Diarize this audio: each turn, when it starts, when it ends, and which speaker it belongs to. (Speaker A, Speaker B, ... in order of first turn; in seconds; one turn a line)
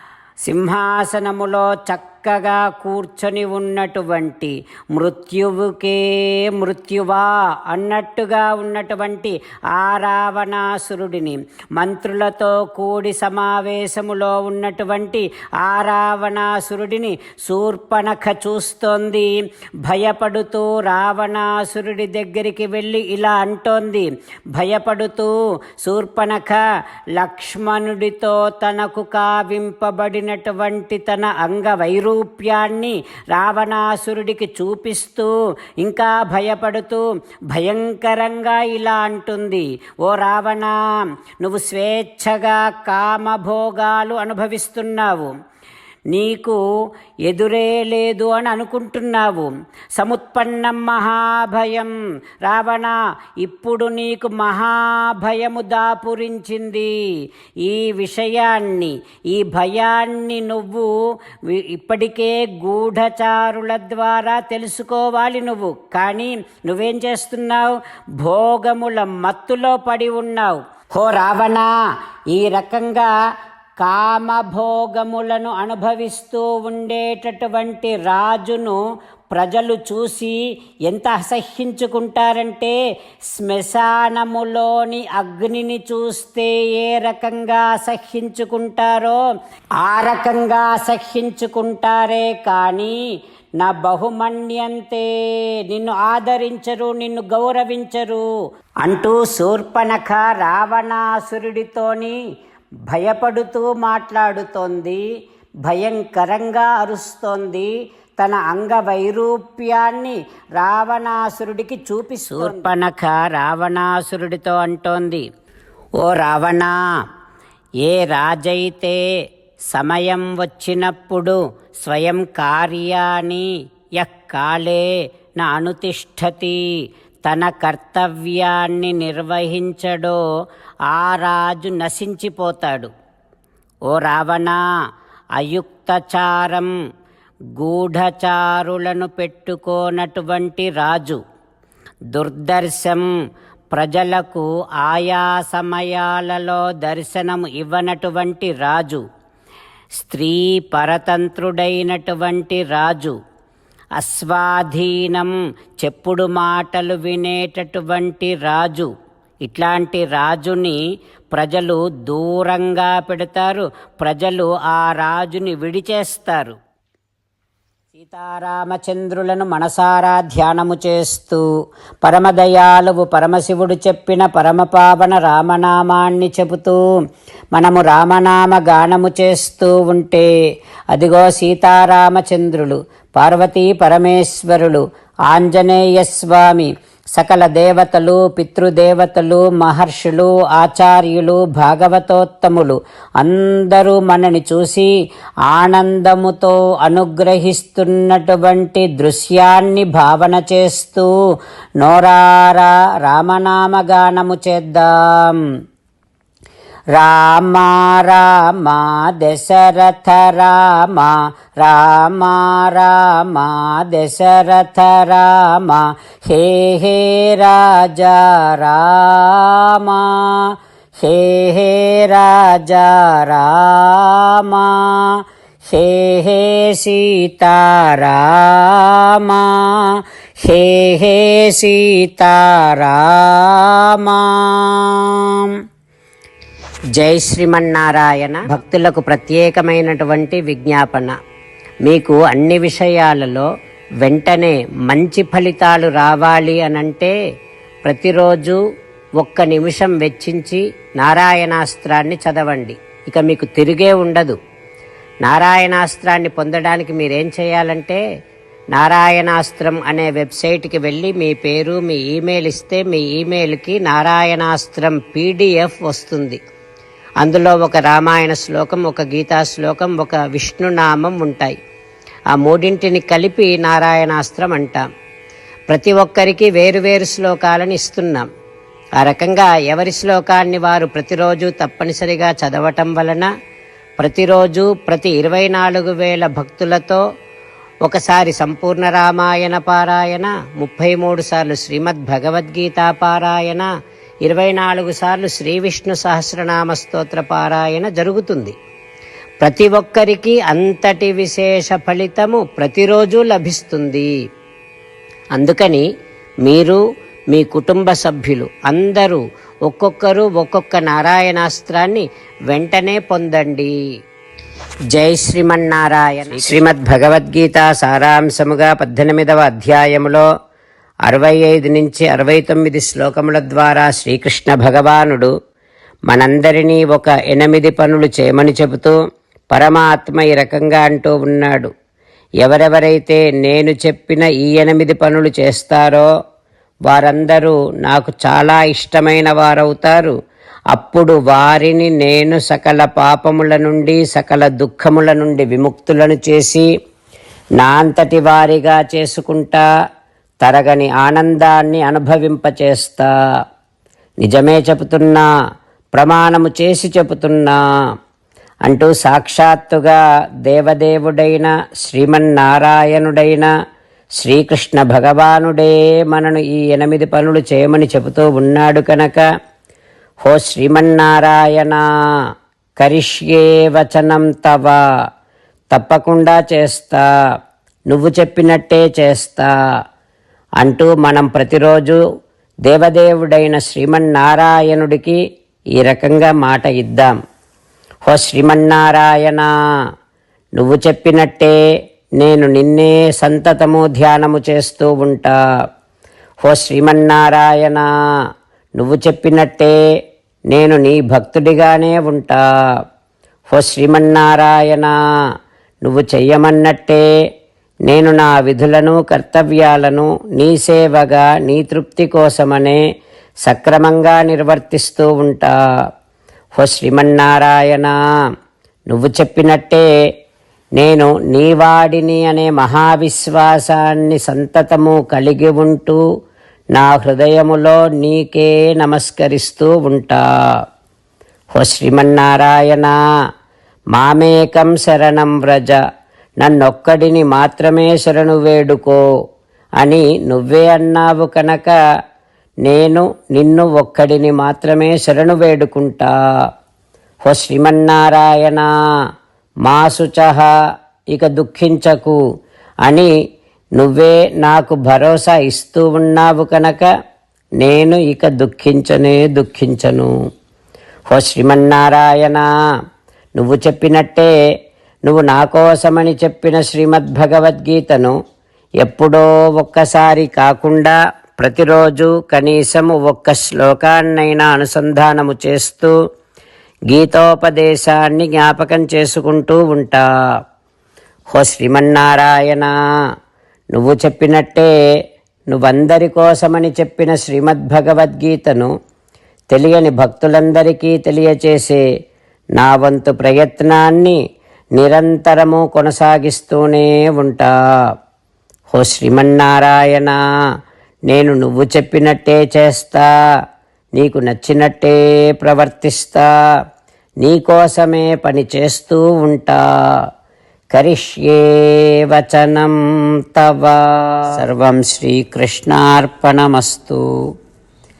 Speaker A: 0.4-26.6
Speaker A: 27.1-40.8
Speaker A: 41.4-45.3
Speaker A: 46.1-46.6
Speaker A: 47.3-56.9
Speaker A: 57.6-60.9
Speaker A: 61.5-71.7
Speaker A: 72.3-73.1
Speaker A: 73.8-78.8
Speaker A: 79.3-82.8
Speaker A: 83.3-89.2
Speaker A: 89.8-93.0
Speaker A: 93.6-95.1
Speaker A: 95.7-98.3
Speaker A: 98.8-102.2
Speaker A: 102.9-105.0
Speaker A: 105.6-115.2
Speaker A: 116.0-116.8
Speaker A: 117.8-119.0
Speaker A: 119.7-124.9
Speaker A: 125.4-126.6
Speaker A: 127.2-130.2
Speaker A: 130.9-132.9
Speaker A: 133.9-134.6
Speaker A: 135.4-136.7
Speaker A: 137.6-141.2
Speaker A: 142.1-143.1
Speaker A: 143.7-149.0
Speaker A: 149.9-153.2
Speaker A: 154.0-158.9
Speaker A: 159.4-160.8
Speaker A: 161.3-166.6
Speaker A: 167.9-171.4
Speaker A: 172.0-176.8
Speaker A: 177.5-180.3
Speaker A: 180.9-194.9
Speaker A: 195.5-201.1
Speaker A: 201.8-205.4
Speaker A: 206.9-235.5
Speaker A: 236.9-241.2
Speaker A: 241.8-243.5
Speaker A: 244.0-247.2
Speaker A: 247.8-248.6
Speaker A: 249.2-254.4
Speaker A: 255.2-258.0
Speaker A: 258.7-266.4
Speaker A: 267.2-271.6
Speaker A: 272.3-274.9
Speaker A: 275.7-278.3
Speaker A: 279.0-283.3
Speaker A: 284.0-287.0
Speaker A: 287.8-293.7
Speaker A: 294.2-298.5
Speaker A: 299.4-304.1
Speaker A: 305.3-305.9
Speaker A: 306.4-313.7
Speaker A: 314.9-320.3
Speaker A: 321.1-325.3
Speaker A: 326.1-329.0
Speaker A: 329.5-331.7
Speaker A: 332.4-336.1
Speaker A: 336.9-340.1
Speaker A: 340.7-346.7
Speaker A: 347.6-349.6
Speaker A: 350.4-353.1
Speaker A: 354.2-355.2
Speaker A: 355.9-357.6
Speaker A: 358.6-363.5
Speaker A: 364.2-369.2
Speaker A: 370.2-371.8
Speaker A: 372.8-374.8
Speaker A: 375.7-377.1
Speaker A: 377.9-379.5
Speaker A: 380.6-382.0
Speaker A: 382.6-385.2
Speaker A: 385.8-387.1
Speaker A: 388.1-389.5
Speaker A: 390.6-391.6
Speaker A: 392.2-395.4
Speaker A: 396.4-397.9
Speaker A: 398.8-399.8
Speaker A: 400.5-402.4
Speaker A: 403.5-404.9
Speaker A: 405.8-407.1
Speaker A: 407.9-412.8
Speaker A: 413.4-415.6
Speaker A: 416.6-418.0
Speaker A: 418.9-419.9
Speaker A: 420.8-426.0
Speaker A: 426.7-430.2
Speaker A: 431.6-433.0
Speaker A: 433.9-435.8
Speaker A: 436.4-439.0
Speaker A: 439.8-441.8
Speaker A: 442.6-446.1
Speaker A: 447.2-448.7
Speaker A: 449.6-450.5
Speaker A: 451.1-452.2
Speaker A: 452.9-453.1
Speaker A: 453.8-456.9
Speaker A: 457.6-460.1
Speaker A: 461.1-462.5
Speaker A: 463.4-464.3
Speaker A: 465.1-468.1
Speaker A: 468.8-475.9
Speaker A: 476.9-480.0
Speaker A: 481.3-482.7
Speaker A: 483.7-484.7
Speaker A: 485.5-488.7
Speaker A: 489.5-491.8
Speaker A: 492.6-494.2
Speaker A: 494.8-497.5
Speaker A: 498.7-500.2
Speaker A: 501.1-503.1
Speaker A: 504.0-506.3
Speaker A: 507.2-509.6
Speaker A: 510.7-517.0